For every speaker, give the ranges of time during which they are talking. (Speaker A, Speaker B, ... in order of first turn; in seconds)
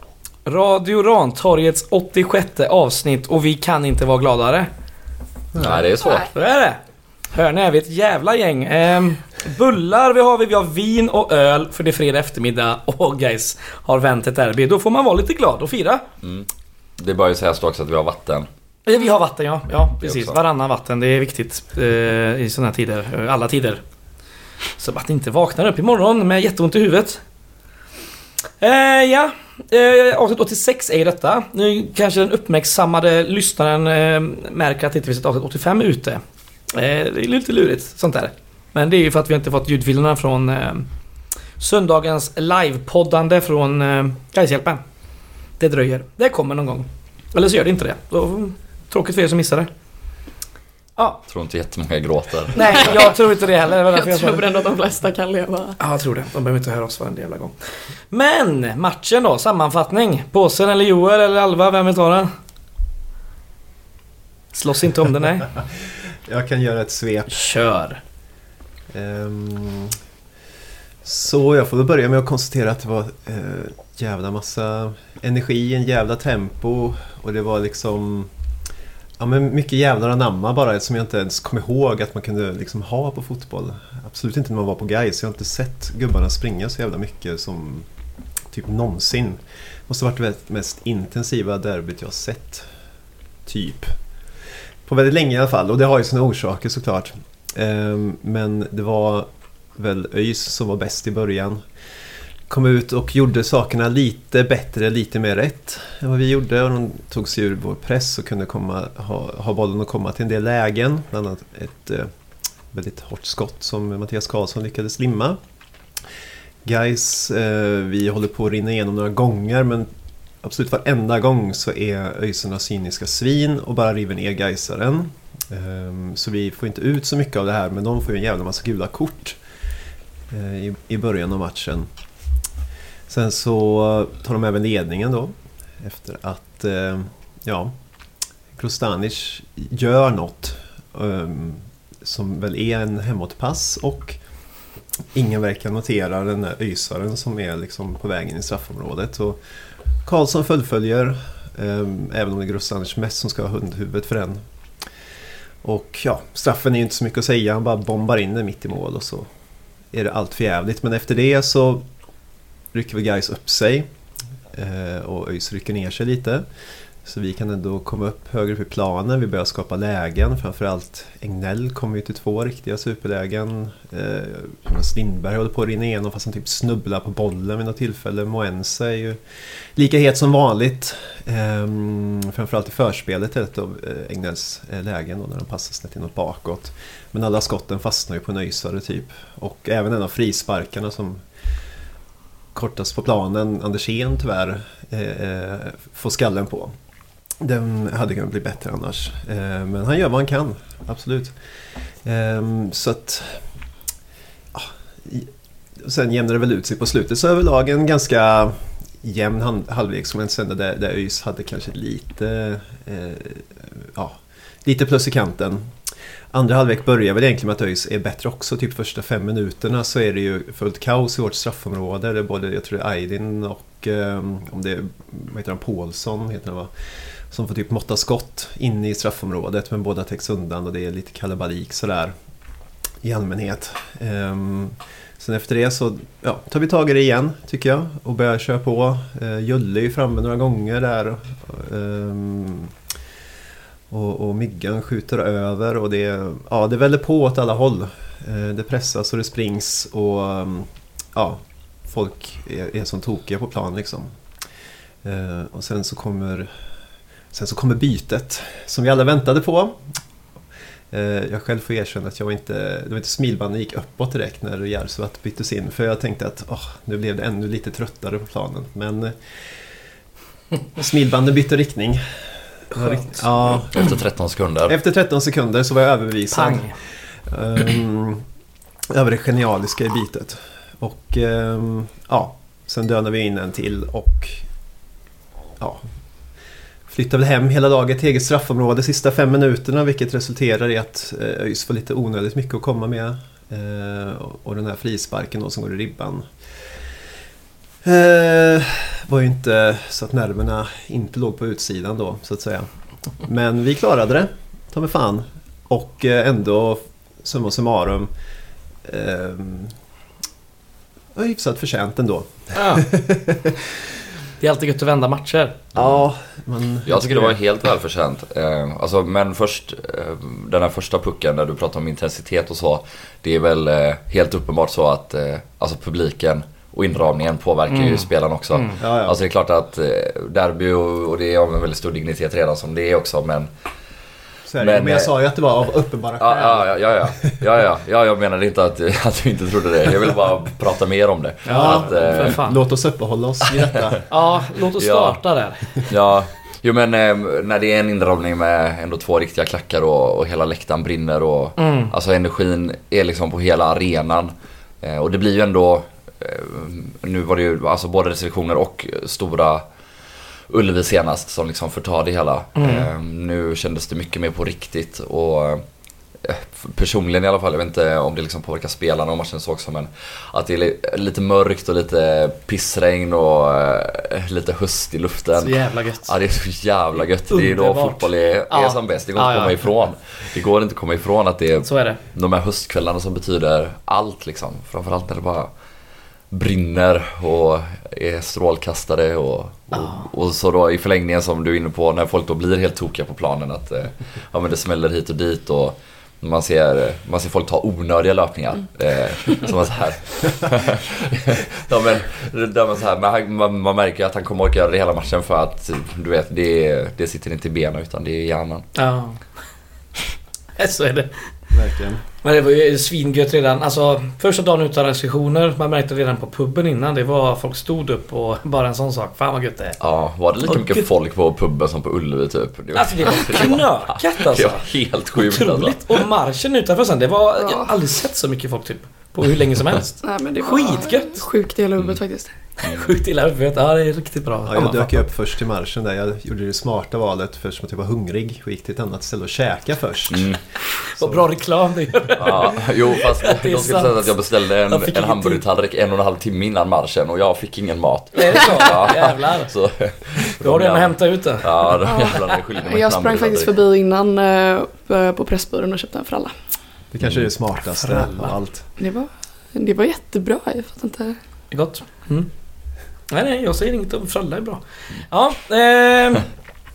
Speaker A: 0.5-4.7, 5.6-6.8, 7.3-16.0, 18.9-23.8, 24.8-27.2, 28.6-36.2, 36.7-40.9, 41.6-44.8, 45.6-49.7, 52.5-54.7, 55.8-57.5, 58.1-62.3, 64.5-65.5, 67.3-68.0, 272.8-273.0, 276.3-276.7, 312.5-312.9, 314.4-315.6, 327.7-328.8, 341.4-342.6, 344.1-345.8, 351.6-351.9, 362.6-362.9, 375.4-376.1, 377.3-379.6, 381.6-382.0, 389.7-390.0, 408.7-409.2, 410.6-411.2, 412.2-419.8, 420.4-420.9, 422.7-431.2, 432.6-434.9, 440.9-444.1, 444.7-445.4, 448.1-449.5, 450.3-451.8, 457.7-458.4, 461.5-462.3, 463.1-466.3
Speaker B: 5.5-6.3, 16.2-18.5, 20.0-20.4, 51.3-52.9, 273.7-274.8, 316.9-333.5, 334.6-335.1, 336.2-342.4, 344.8-345.2, 345.8-359.6, 360.5-365.6, 366.2-385.5, 386.3-408.7, 419.8-426.0, 432.6-432.9, 440.1-440.4, 442.2-453.5
Speaker C: 52.5-53.1, 53.9-55.8, 427.4-427.7, 430.0-432.3, 451.8-456.3, 458.8-461.2
Speaker D: 66.2-67.5, 68.9-69.9, 71.0-78.3, 79.2-87.9, 88.5-92.7, 93.5-93.9, 94.8-101.6, 102.5-112.1, 112.7-115.4, 116.6-119.9, 120.4-129.4, 130.3-131.9, 133.1-137.7, 138.5-144.2, 145.1-149.4, 150.0-154.4, 155.6-159.3, 159.9-161.8, 162.7-163.9, 164.5-166.4, 167.0-179.2, 179.8-191.2, 192.5-196.7, 197.4-201.3, 202.0-203.4, 204.5-215.8, 216.3-226.7, 227.3-232.1, 233.0-242.7, 243.9-254.1, 255.0-256.5, 257.3-259.8, 260.9-269.1, 270.8-272.0, 272.7-273.8, 274.7-276.7, 277.2-278.2, 278.9-284.4, 286.9-296.3, 297.8-302.7, 303.2-308.1, 308.8-309.7, 311.1-313.7, 315.7-317.4, 328.8-329.2, 334.4-336.7, 341.5-344.0, 411.5-412.0, 434.4-440.4, 440.9-441.3, 456.9-458.7